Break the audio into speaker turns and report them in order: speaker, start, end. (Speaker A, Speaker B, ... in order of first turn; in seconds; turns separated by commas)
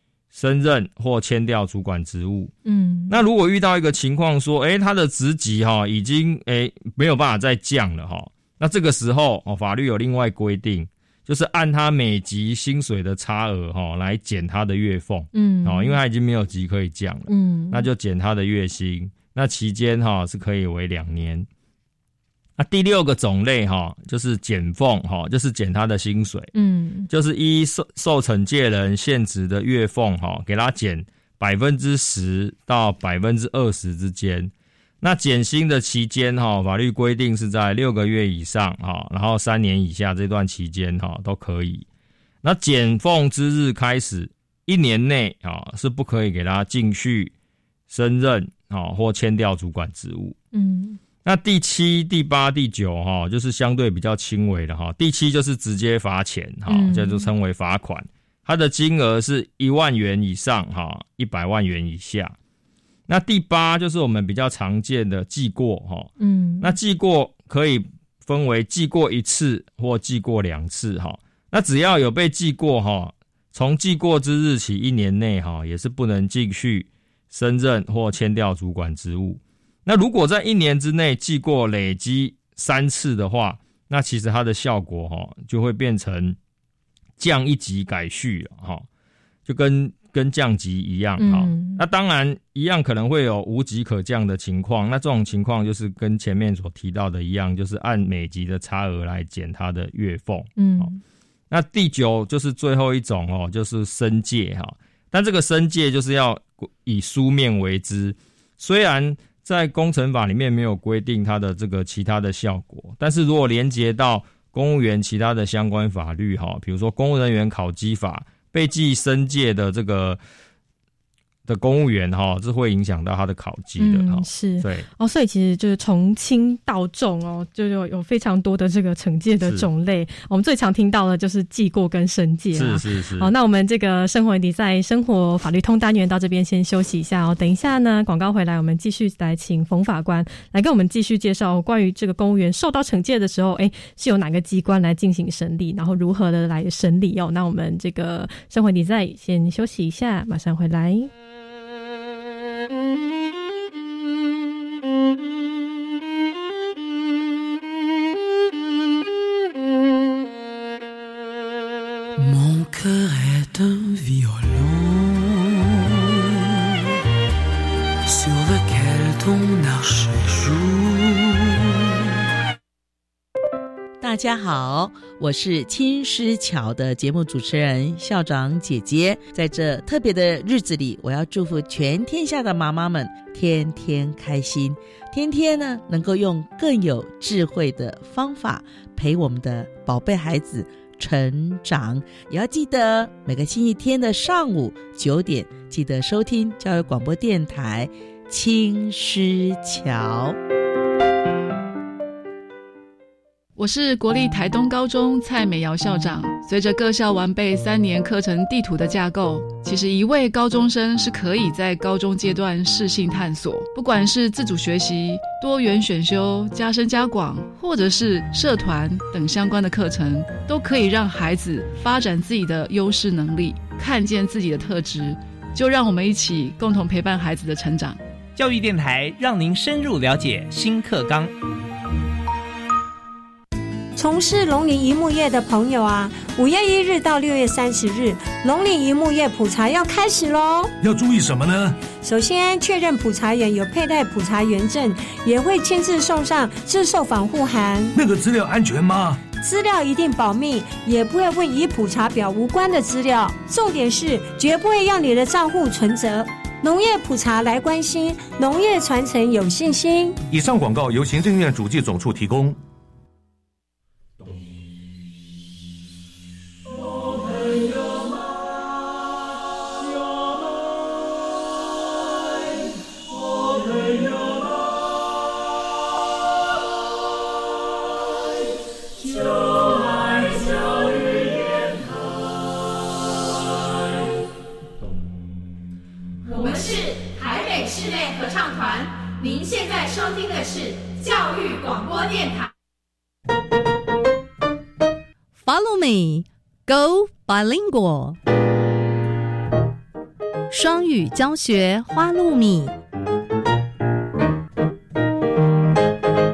Speaker A: 0.3-2.5, Speaker B: 2.6-3.2, Speaker A: 3.1-21.5, Speaker B: 15.3-16.0, Speaker B: 17.3-17.9, Speaker A: 22.6-26.5, Speaker B: 26.5-27.1, Speaker A: 27.1-41.9, Speaker A: 42.4-47.3, Speaker A: 47.9-50.4, Speaker B: 50.5-51.0, Speaker A: 51.2-62.4, Speaker B: 56.7-57.3, Speaker A: 63.1-86.4, Speaker B: 66.2-66.8, Speaker A: 87.2-88.9, Speaker A: 89.5-100.9, Speaker B: 91.2-91.8, Speaker B: 100.6-101.0, Speaker A: 101.5-120.2, Speaker A: 121.5-124.9, Speaker B: 123.8-151.1, Speaker A: 132.6-133.3, Speaker C: 174.0-200.4, Speaker D: 203.6-228.0, Speaker E: 228.4-231.3, Speaker F: 234.0-240.7, Speaker G: 240.8-241.8, Speaker F: 242.0-247.9, Speaker G: 247.9-249.2, Speaker F: 249.3-260.2, Speaker G: 260.3-262.6, Speaker F: 286.4-286.6, Speaker H: 287.2-287.6, Speaker F: 287.6-287.9, Speaker H: 288.3-288.7, Speaker F: 289.5-291.7, Speaker H: 295.4-298.2, Speaker H: 300.5-302.8